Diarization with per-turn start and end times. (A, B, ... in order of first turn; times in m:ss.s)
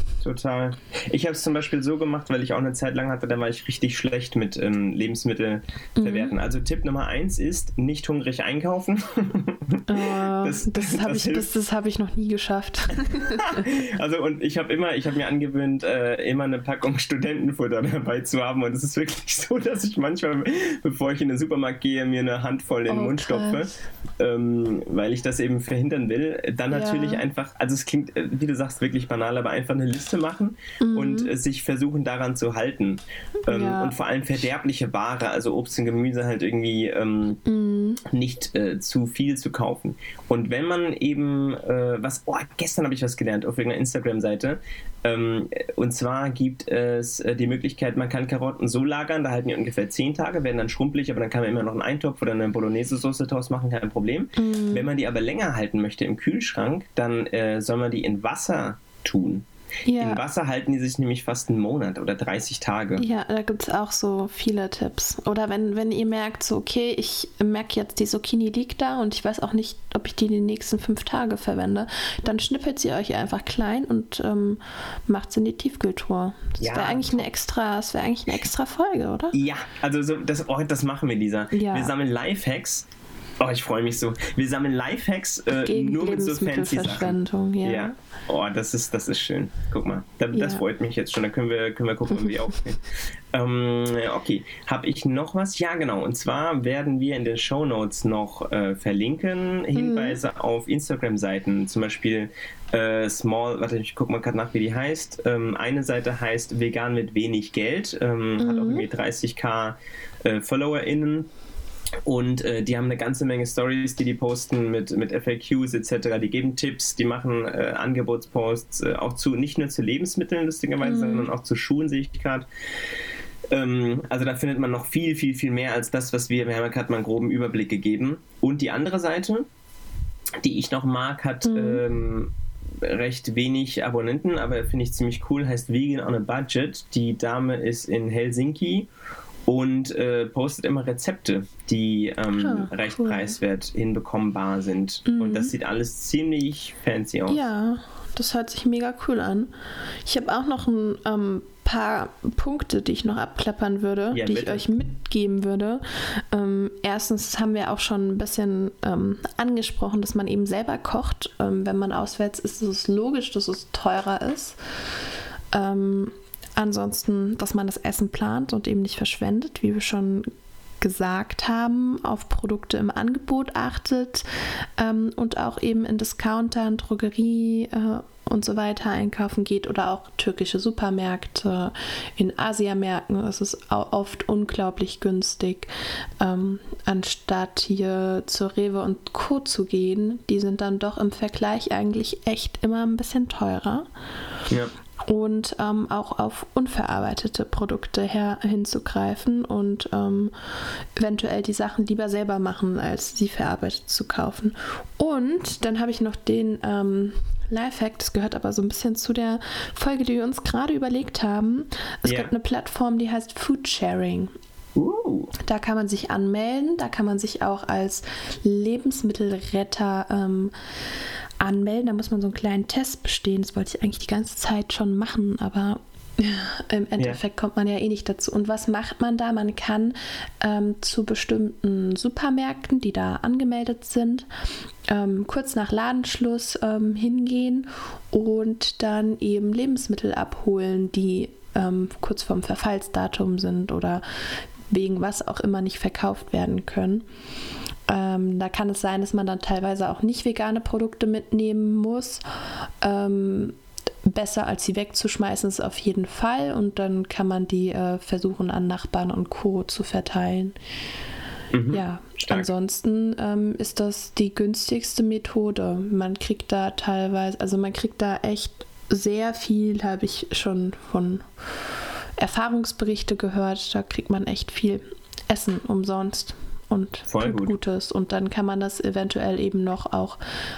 0:00.2-0:11.5 A
0:06.0-0:06.3 B
0:09.9-0:13.7 B
0:13.1-0:37.4 A
0:22.9-0:23.7 B
0:26.7-0:27.2 B
0:30.8-0:31.3 B
0:33.4-0:33.9 B
0:37.4-0:38.0 B
0:38.0-1:03.0 A
0:54.4-0:54.9 B
0:59.8-1:00.2 B
1:03.0-1:19.4 B
1:16.6-1:17.2 A
1:19.3-1:22.9 A
1:21.5-1:21.9 B
1:23.4-1:51.3 A
1:25.6-1:27.9 B
1:30.3-1:30.6 B
1:39.7-1:40.2 B
1:48.4-1:48.9 B
1:52.0-2:02.5 A
2:00.8-2:01.3 B
2:03.5-2:09.4 A
2:10.4-2:18.9 A
2:11.4-2:11.8 B
2:19.5-2:27.4 A
2:22.3-2:23.3 B
2:25.0-2:25.5 B
2:27.3-2:29.5 B
2:30.0-2:44.6 B
2:34.1-2:34.6 A
2:45.5-2:50.3 B
2:50.8-3:13.9 B
3:15.0-3:34.3 B
3:32.0-3:32.3 A
3:34.7-3:35.3 A
3:35.4-3:40.5 B
3:41.4-3:54.3 B
3:54.9-4:04.0 B
4:04.7-4:07.0 B
4:07.9-4:12.2 B
4:12.8-4:20.6 B
4:21.5-4:22.5 A
4:21.7-4:31.2 B
4:32.2-4:40.2 B
4:37.1-4:37.5 A